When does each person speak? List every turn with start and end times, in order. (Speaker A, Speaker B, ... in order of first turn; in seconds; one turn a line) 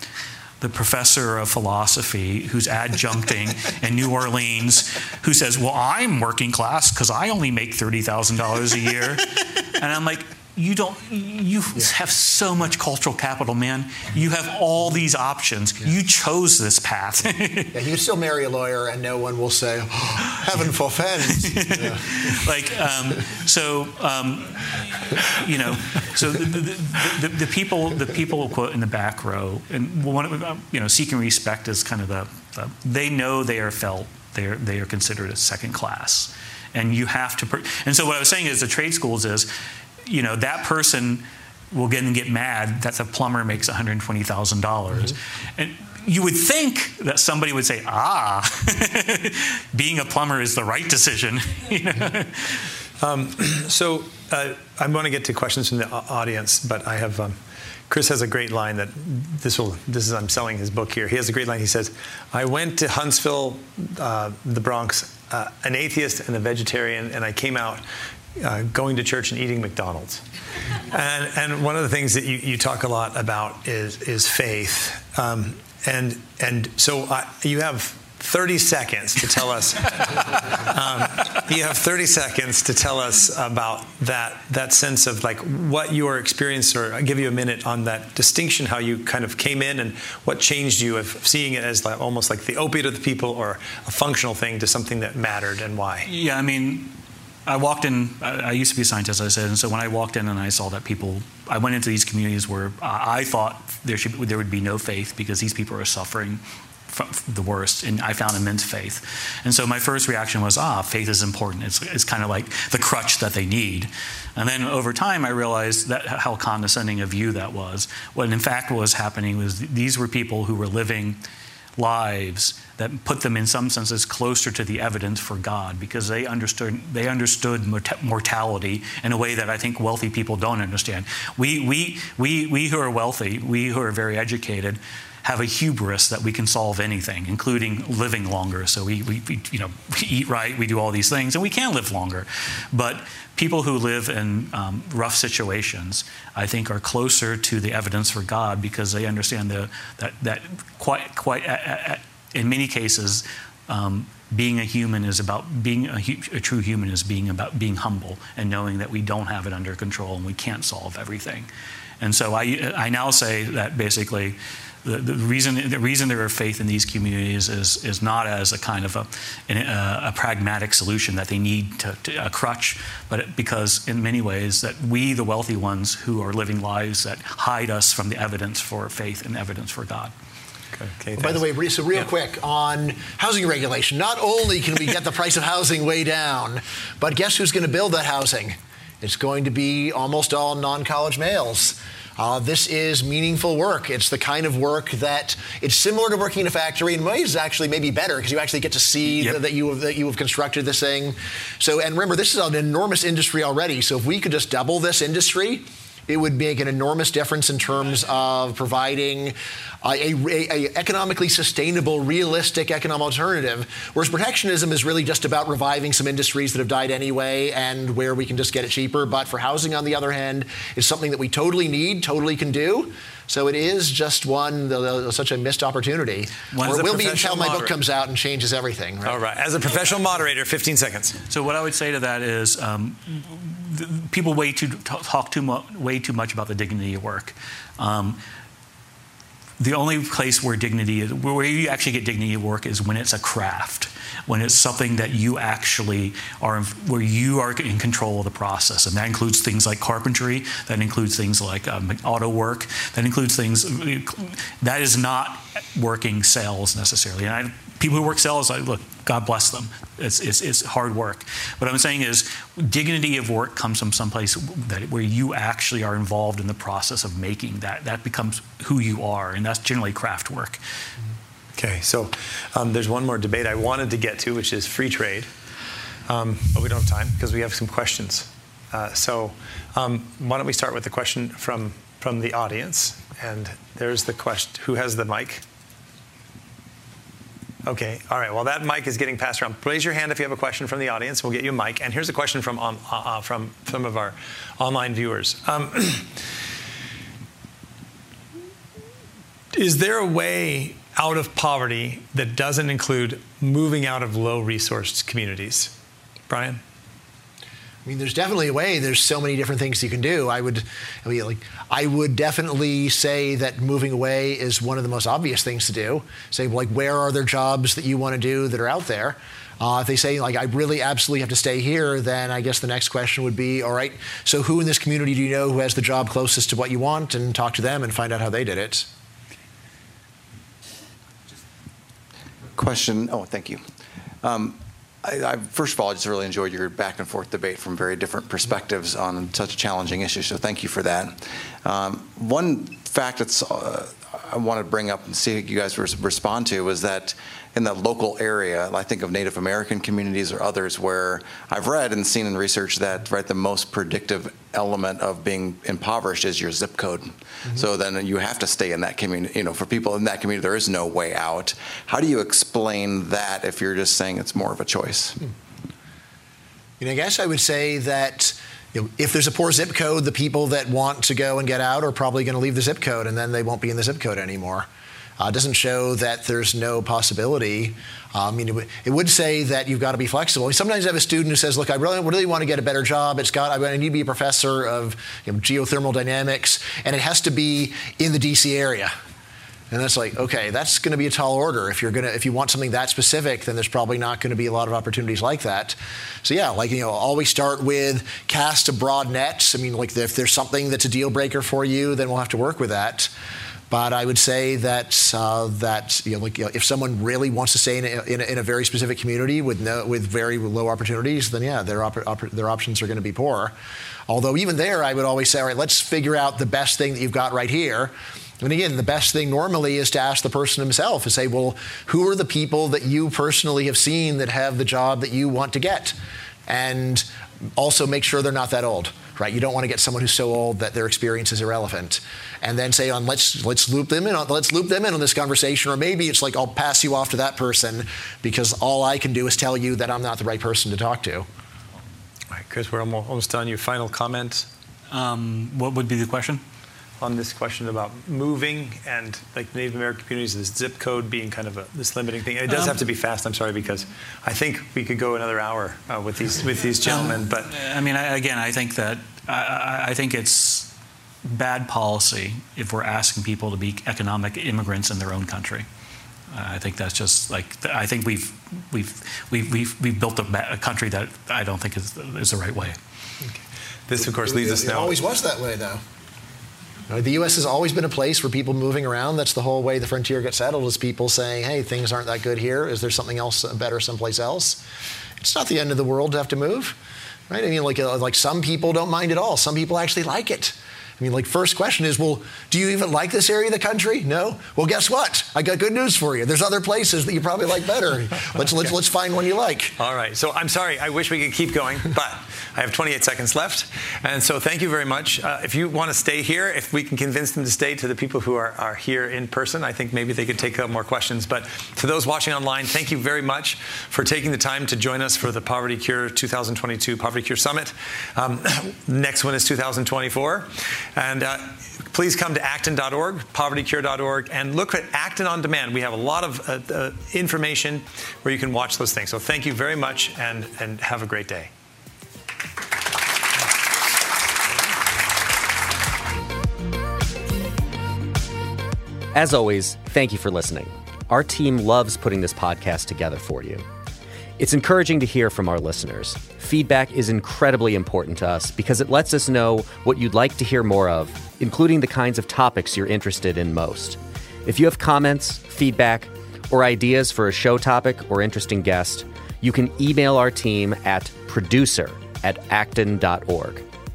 Speaker A: 0.6-17.8
Speaker B: 17.7-22.0
Speaker A: 21.3-39.5
Speaker A: 40.0-52.7
Speaker C: 53.0-57.4
Speaker C: 57.9-67.8
Speaker C: 68.3-70.2
Speaker C: 70.9-96.1
Speaker A: 96.0-121.2
Speaker A: 121.8-161.5
Speaker A: 162.0-180.1
Speaker C: 180.7-181.4
Speaker B: 181.2-229.2
Speaker A: 226.5-227.7
Speaker C: 229.0-231.2
Speaker A: 231.3-238.2
Speaker A: 239.6-270.6
Speaker C: 271.6-275.3
Speaker C: 276.1-285.4
Speaker C: 287.6-296.2
Speaker C: 299.5-305.7
Speaker C: 306.3-306.6
Speaker B: 307.8-328.9
Speaker D: 332.6-333.6
Speaker D: 334.2-365.3
Speaker B: 366.8-374.7
Speaker B: 375.2-388.9
Speaker B: 389.7-403.1
Speaker B: 403.7-413.5
Speaker B: 414.1-425.9
Speaker B: 426.5-427.1
Speaker B: 427.6-441.3
Speaker C: 442.3-444.5
Speaker A: 444.9-446.4
Speaker C: 447.0-457.5
Speaker A: 452.5-452.8
Speaker A: 456.8-460.7
Speaker A: 461.2-465.6
Speaker A: 466.3-472.8
Speaker C: 473.9-475.0
Speaker B: 474.1-475.8
Speaker B: 476.9-484.6
Speaker B: 485.2-486.8
Speaker B: 487.3-499.8
Speaker C: 499.8-531.5
Speaker E: 539.1-543.6
Speaker E: 544.4-563.6